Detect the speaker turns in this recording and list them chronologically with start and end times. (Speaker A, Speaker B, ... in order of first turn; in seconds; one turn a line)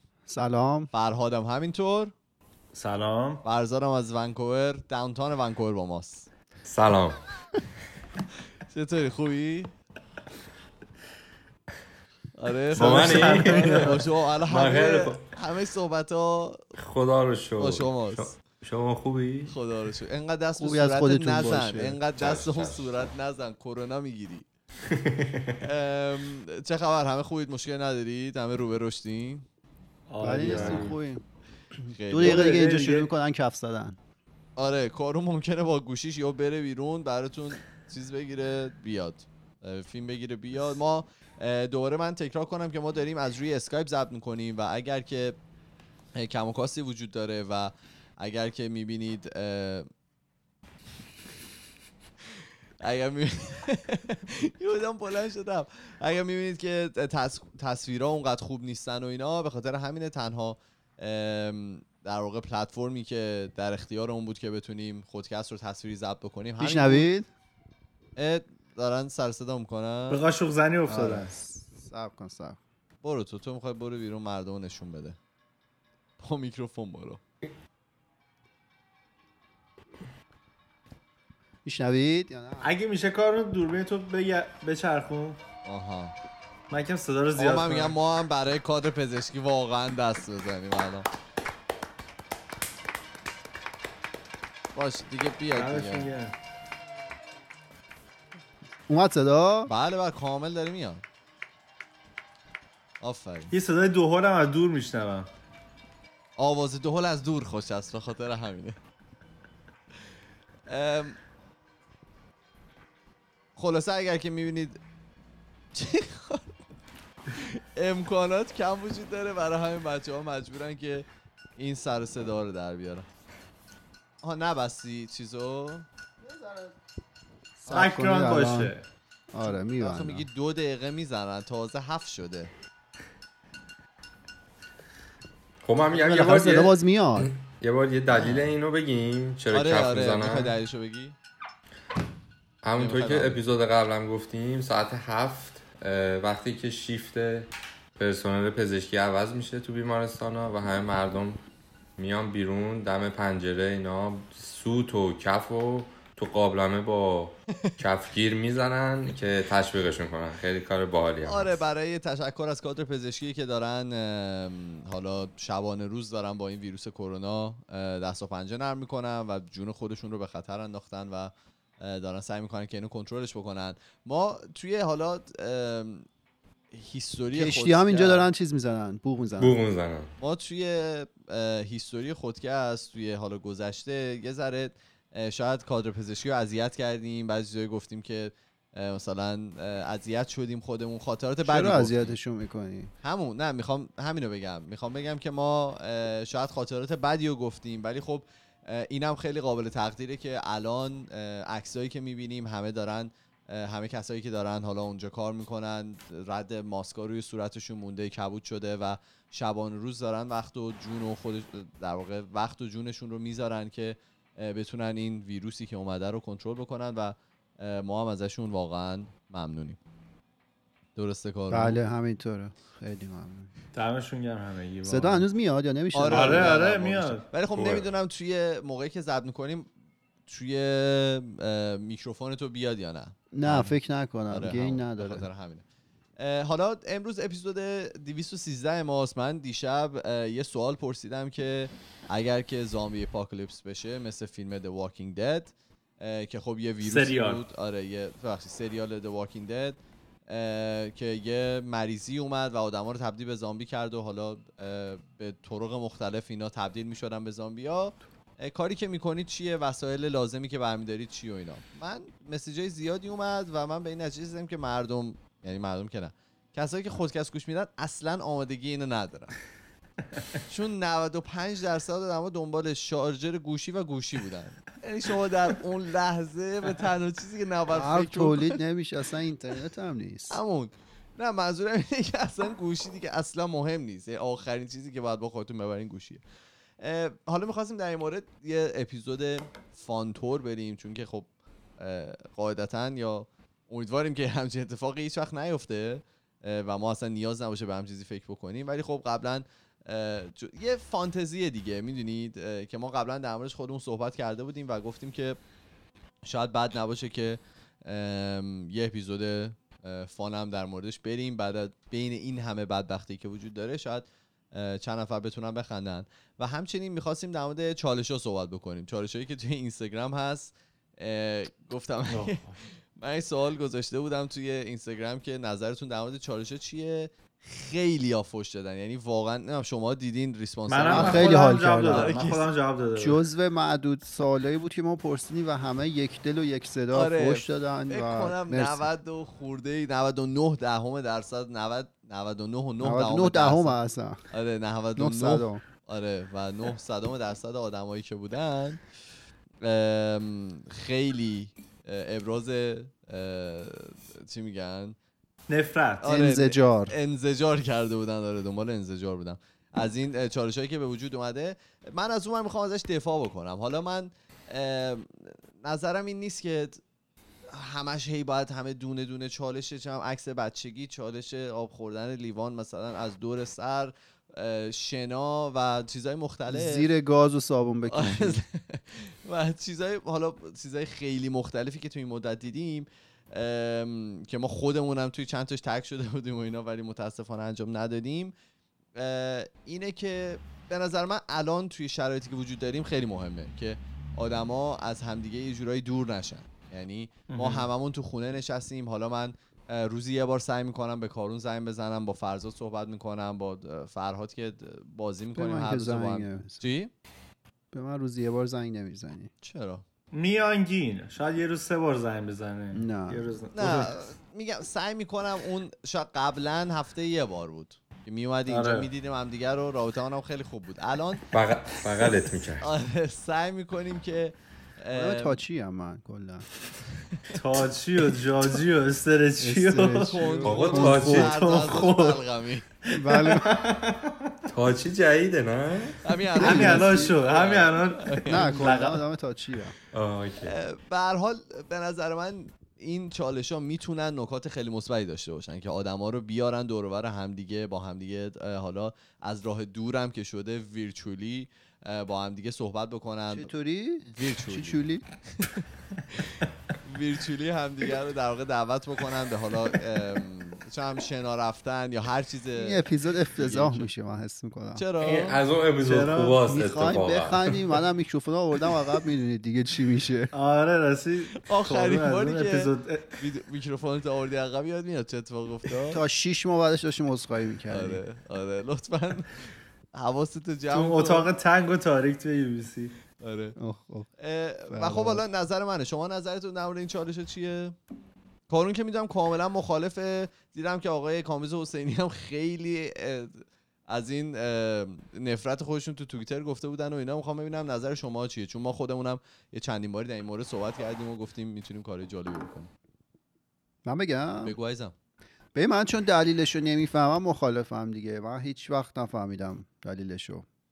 Speaker A: 0.3-0.9
Speaker B: 0.9-2.1
Speaker C: 2.7-3.4
Speaker B: 3.4-6.3
Speaker D: 6.7-7.2
Speaker B: 8.7-9.7
Speaker B: 12.3-16.6
Speaker D: 12.7-14.0
Speaker C: 12.7-15.2
Speaker D: 16.8-19.5
Speaker B: 17.6-18.4
Speaker B: 19.5-24.5
Speaker A: 20.6-22.0
Speaker D: 22.1-23.1
Speaker D: 24.9-25.6
Speaker B: 25.6-29.5
Speaker C: 30.1-30.9
Speaker A: 30.2-31.2
Speaker D: 30.4-30.9
Speaker B: 31.9-32.6
Speaker A: 32.1-34.0
Speaker C: 32.2-33.1
Speaker B: 34.6-45.4
Speaker B: 46.1-49.9
Speaker B: 52.8-67.1
Speaker A: 66.6-67.3
Speaker B: 68.2-70.2
Speaker C: 70.1-71.3
Speaker A: 70.9-72.6
Speaker B: 73.0-75.2
Speaker B: 76.2-77.2
Speaker A: 81.7-82.7
Speaker C: 82.6-85.4
Speaker B: 85.7-86.2
Speaker C: 86.7-87.9
Speaker B: 87.4-91.1
Speaker B: 94.8-96.1
Speaker C: 95.5-96.3
Speaker A: 98.9-99.7
Speaker B: 99.7-101.0
Speaker B: 103.0-103.5
Speaker C: 103.5-105.3
Speaker B: 106.4-108.8
Speaker B: 110.7-111.2
Speaker B: 113.6-114.8
Speaker B: 115.7-116.6
Speaker B: 117.3-121.1
Speaker B: 121.6-123.1
Speaker B: 124.2-125.9
Speaker A: 126.2-126.8
Speaker A: 127.6-128.7
Speaker C: 127.7-128.8
Speaker A: 129.3-130.2
Speaker B: 129.8-132.5
Speaker D: 135.6-140.6
Speaker A: 135.9-137.3
Speaker B: 138.1-138.5
Speaker B: 139.5-141.2
Speaker D: 142.6-151.4
Speaker B: 142.8-143.4
Speaker D: 152.0-161.6
Speaker B: 161.2-176.1
Speaker B: 176.7-178.3
Speaker A: 177.3-179.6
Speaker D: 179.4-180.1
Speaker B: 180.2-192.2
Speaker A: 191.4-192.9
Speaker B: 193.0-219.8
Speaker B: 221.0-221.8
Speaker A: 221.5-223.5
Speaker C: 223.7-225.2
Speaker A: 224.9-226.9
Speaker B: 225.9-229.7
Speaker C: 226.1-227.3
Speaker D: 227.5-227.9
Speaker B: 230.3-233.8
Speaker A: 233.3-235.2
Speaker B: 234.3-235.7
Speaker B: 236.2-269.4
Speaker C: 246.8-247.4
Speaker B: 270.5-278.6
Speaker A: 277.7-280.4
Speaker B: 280.3-286.2
Speaker B: 286.8-305.4
Speaker B: 306.2-322.4
Speaker C: 322.1-322.6
Speaker B: 323.0-331.3
Speaker C: 330.7-333.2
Speaker A: 330.9-332.2
Speaker B: 331.9-332.4
Speaker A: 333.0-338.9
Speaker B: 336.9-343.8
Speaker A: 342.8-344.2
Speaker B: 344.3-348.8
Speaker A: 345.0-345.6
Speaker B: 349.6-355.0
Speaker C: 355.5-356.1
Speaker B: 356.0-366.8
Speaker A: 356.0-356.9
Speaker B: 367.5-376.9
Speaker A: 376.5-378.4
Speaker B: 377.9-388.3
Speaker B: 389.0-406.9
Speaker C: 397.3-397.7
Speaker A: 405.4-406.6
Speaker A: 407.7-409.3
Speaker B: 409.4-409.8
Speaker C: 410.1-413.9
Speaker A: 412.7-413.3
Speaker B: 413.5-421.2
Speaker C: 418.5-418.9
Speaker D: 421.3-422.7
Speaker B: 422.6-425.4
Speaker A: 424.9-426.5
Speaker B: 427.0-427.4
Speaker C: 427.3-432.2
Speaker A: 429.4-431.3
Speaker B: 430.1-432.7
Speaker D: 430.4-431.4
Speaker C: 432.8-434.4
Speaker A: 432.9-433.7
Speaker D: 434.5-436.0
Speaker B: 436.0-438.8
Speaker A: 436.4-437.1
Speaker C: 436.4-439.0
Speaker A: 438.3-439.8
Speaker D: 439.9-440.5
Speaker B: 440.4-453.5
Speaker A: 453.3-455.1
Speaker B: 454.1-455.6
Speaker B: 456.1-462.8
Speaker A: 462.6-464.8
Speaker B: 463.4-463.9
Speaker B: 464.8-465.4
Speaker C: 465.0-465.3
Speaker D: 465.1-467.6
Speaker C: 465.8-466.4
Speaker A: 466.5-470.3
Speaker C: 470.3-473.1
Speaker B: 471.4-476.0
Speaker A: 475.9-478.0
Speaker B: 477.7-481.3
Speaker C: 480.7-483.0
Speaker B: 483.2-483.6
Speaker A: 483.6-484.1
Speaker B: 484.2-487.8
Speaker A: 484.7-485.2
Speaker B: 488.5-502.7
Speaker A: 503.9-504.5
Speaker B: 504.4-504.9
Speaker A: 505.6-510.4